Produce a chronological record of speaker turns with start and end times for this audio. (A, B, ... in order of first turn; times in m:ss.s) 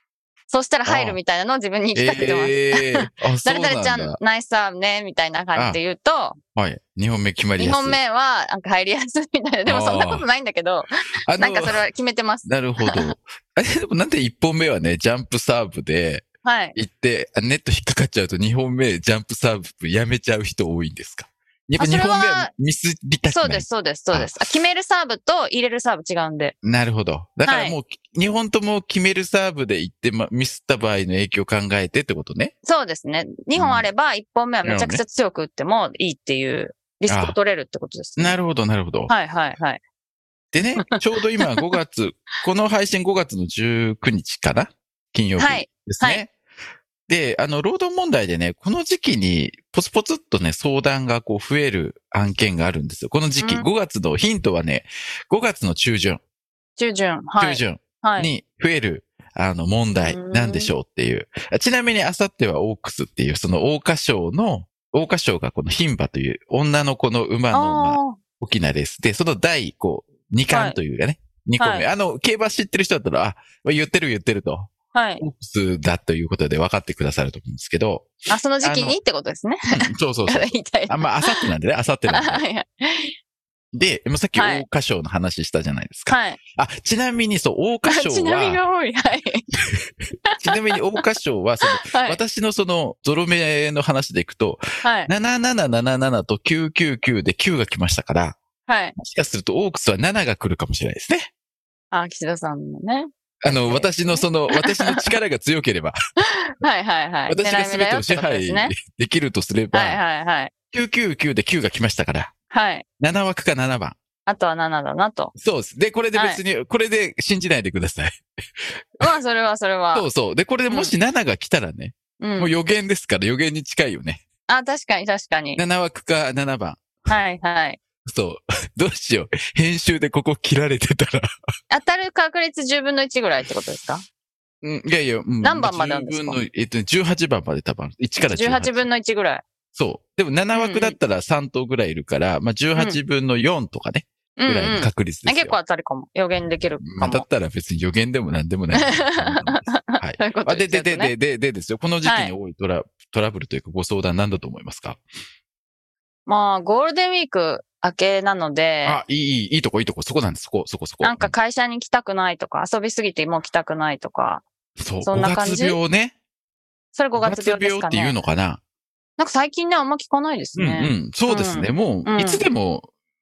0:00.5-0:06.4 A
0:00.8-0:01.2 B
0:01.9-0:04.2 B
0:05.5-0:05.8 B
0:06.5-0:08.0 B
0:07.6-0:13.1 A
0:09.6-0:10.2 B
0:11.3-0:11.8 B
0:12.4-0:24.6 B
0:16.4-0:16.8 A
0:21.8-0:22.5 A
0:23.3-0:26.5 A
0:26.6-0:32.5 B
0:27.4-0:27.8 A
0:32.6-0:38.4 A
0:33.6-0:33.9 B
0:34.6-0:35.0 B
0:37.1-0:37.4 B
0:38.2-0:39.1 B
0:39.1-0:39.8 A
0:40.5-0:46.3 B
0:45.4-0:46.2 A
0:47.1-0:56.2 B
0:53.4-0:53.7 A
0:56.8-0:58.3 A
0:57.4-1:19.0 B
1:00.0-1:00.7 A
1:07.5-1:08.2 A
1:10.5-1:10.8 A
1:11.6-1:11.9 A
1:14.9-1:15.2 A
1:18.3-1:21.5 A
1:19.7-1:22.4 B
1:22.1-1:23.1 A
1:23.7-1:28.6 B
1:24.3-1:24.6 A
1:26.1-1:26.4 A
1:27.9-1:29.4 A
1:30.3-1:30.6 A
1:30.4-1:38.4 B
1:31.7-1:32.2 A
1:34.8-1:35.1 A
1:38.7-1:38.9 A
1:39.0-1:41.3 B
1:41.9-1:45.1 A
1:43.4-1:46.0 B
1:46.2-1:48.7 A
1:47.3-1:50.0 B
1:49.7-1:50.5 A
1:50.7-1:52.3 B
1:52.5-1:52.8 A
1:53.0-1:54.0 B
1:54.3-1:55.3 A
1:55.4-1:59.1 B
1:56.1-1:56.4 A
1:59.0-2:00.1 A
1:59.9-2:04.2 B
2:02.2-2:02.5 A
2:04.5-2:05.6 A
2:05.6-2:07.0 B
2:07.1-2:07.8 A
2:08.0-2:11.3 B
2:11.7-2:14.0 A
2:14.6-2:18.9 B
2:15.4-2:16.4 A
2:18.2-2:19.4 A
2:19.7-2:25.6 B
2:20.5-2:21.0 A
2:24.4-2:27.2 A
2:26.8-2:35.0 B
2:28.8-2:31.1 A
2:32.0-2:32.3 A
2:36.3-2:39.0 A
2:38.8-2:41.3 B
2:41.0-2:44.4 A
2:44.8-2:46.1 B
2:45.0-2:45.8 A
2:46.9-2:48.2 A
2:47.1-2:48.6 B
2:49.2-2:52.4 A
2:50.5-2:52.9 B